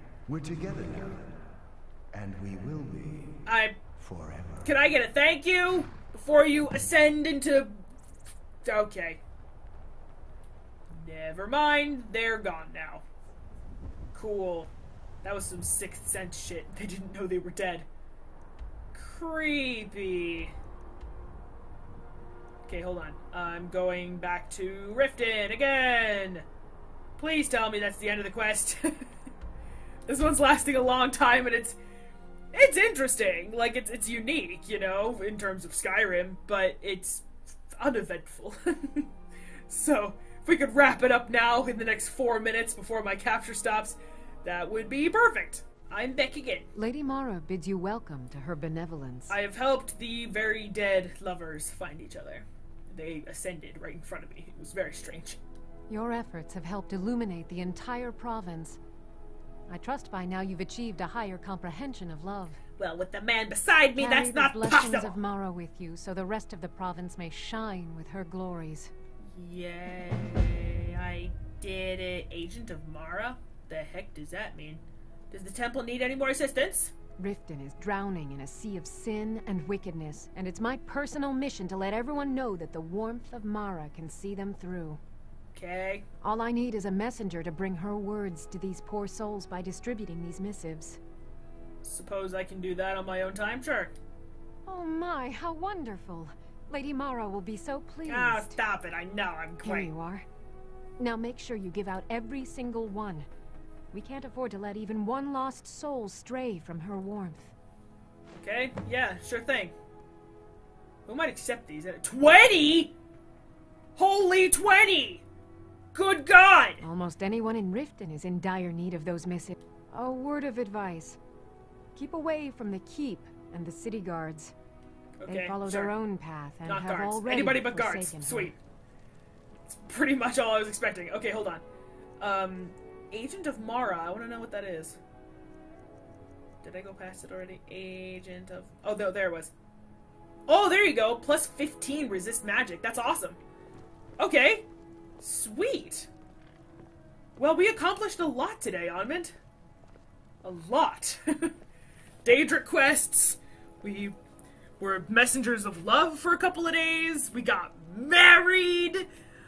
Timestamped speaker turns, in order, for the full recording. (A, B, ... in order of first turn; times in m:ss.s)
0:00.3-0:01.3 A
0:02.1-0:03.4 A
0:03.5-0:03.8 B
0:04.0-0:04.7 A
0:04.6-0:07.8 B
0:08.6-0:09.2 B
0:10.9-0:13.0 B
0:14.1-0:14.7 B
0:15.2-0:17.9 B
0:18.9-0:20.5 B
0:22.7-0:26.5 B
0:27.2-0:29.1 B
0:30.1-0:31.8 B
0:32.5-0:39.1 B
0:39.7-0:46.7 B
0:46.8-0:49.4 C
0:49.3-0:55.4 B
0:55.9-0:58.8 C
0:59.7-1:02.6 C
1:02.8-1:05.2 B
1:04.0-1:08.9 C
1:09.4-1:16.9 B
1:17.2-1:25.0 C
1:25.5-1:26.1 B
1:26.2-1:31.0 C
1:31.8-1:33.9 B
1:34.6-1:38.6 C
1:38.1-1:39.9 B
1:39.6-1:40.2 C
1:41.0-1:43.3 C
1:43.9-1:47.5 C
1:48.4-1:49.8 B
1:51.1-1:53.0 B
1:54.0-1:55.2 B
1:55.9-1:56.8 B
1:56.8-2:01.2 C
2:02.0-2:04.5 C
2:05.2-2:05.9 B
2:05.3-2:08.5 C
2:06.6-2:08.6 B
2:09.7-2:11.6 B
2:12.2-2:15.0 B
2:16.6-2:19.5 B
2:20.5-2:23.4 B
2:24.2-2:24.7 B
2:25.2-2:26.1 B
2:27.4-2:29.3 B
2:30.4-2:31.5 B
2:32.2-2:34.2 B
2:34.8-2:39.1 B